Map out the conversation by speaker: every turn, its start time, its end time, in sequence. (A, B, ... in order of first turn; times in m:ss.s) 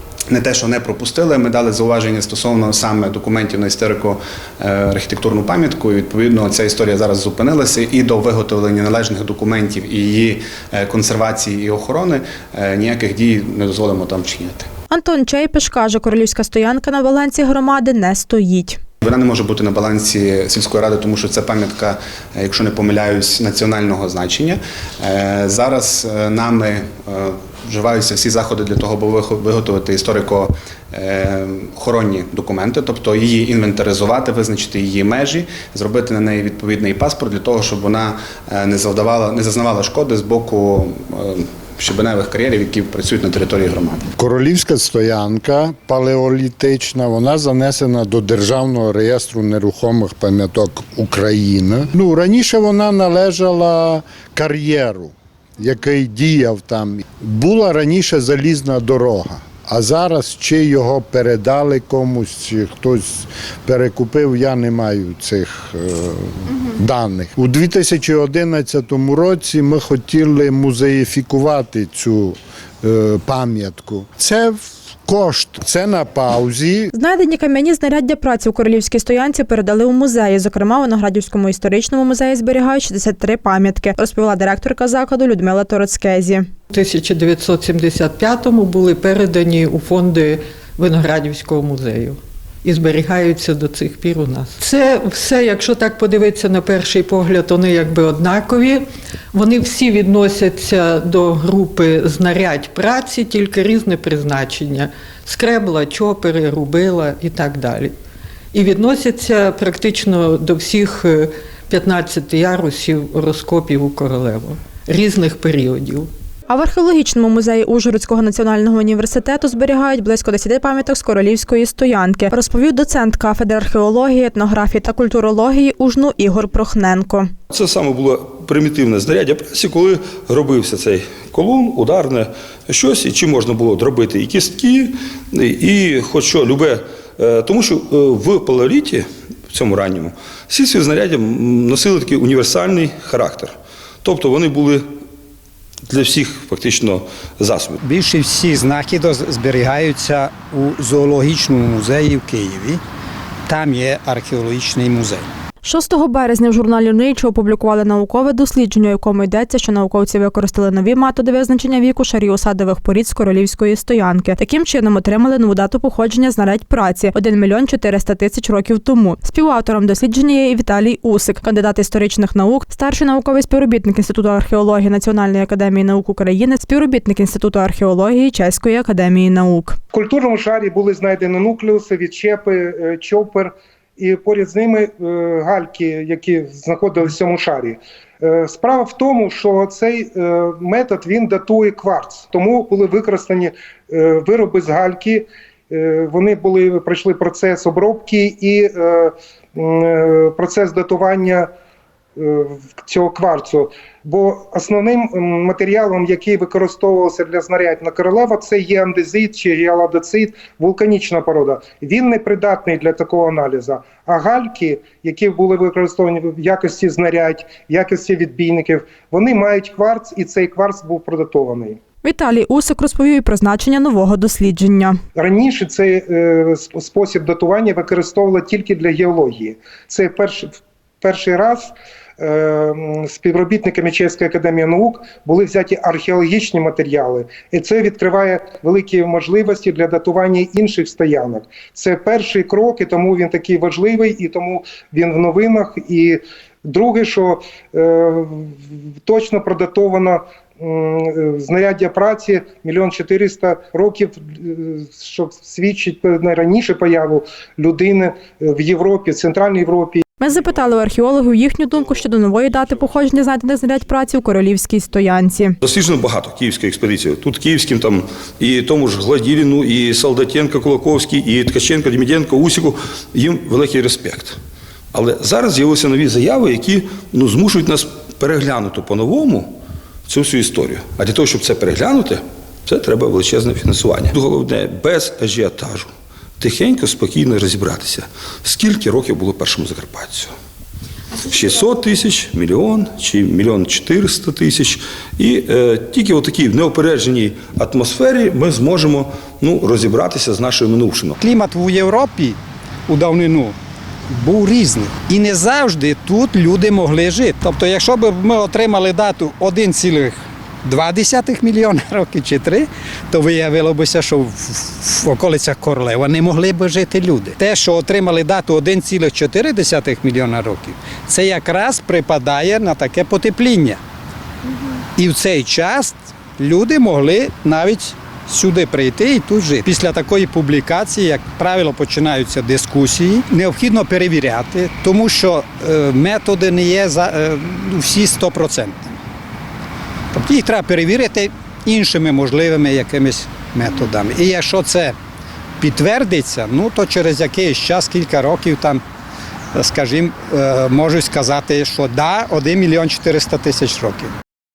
0:00.3-0:14.7 A
0:14.9-0:18.8 B
0:19.0-0:44.1 A
0:44.2-1:16.9 C
1:16.9-1:26.5 B
1:26.7-1:47.9 D
1:48.5-1:56.1 D
1:56.5-2:07.3 B
2:07.5-2:24.8 E
2:25.9-2:27.8 E
2:27.8-2:32.8 F
2:33.5-2:35.3 F
2:35.6-2:59.8 B
2:59.9-3:21.5 G
3:22.2-3:41.8 G
3:42.0-3:45.0 B
3:45.2-4:20.1 G
4:20.2-4:25.6 B
4:25.6-4:34.4 E
4:34.9-4:39.5 E
4:40.1-4:50.3 E
4:51.1-5:01.2 E
5:01.2-5:03.6 F
5:04.1-5:23.8 F
5:25.0-5:39.0 F
5:40.1-5:45.0 F
5:45.6-5:48.8 F
5:49.5-5:54.1 F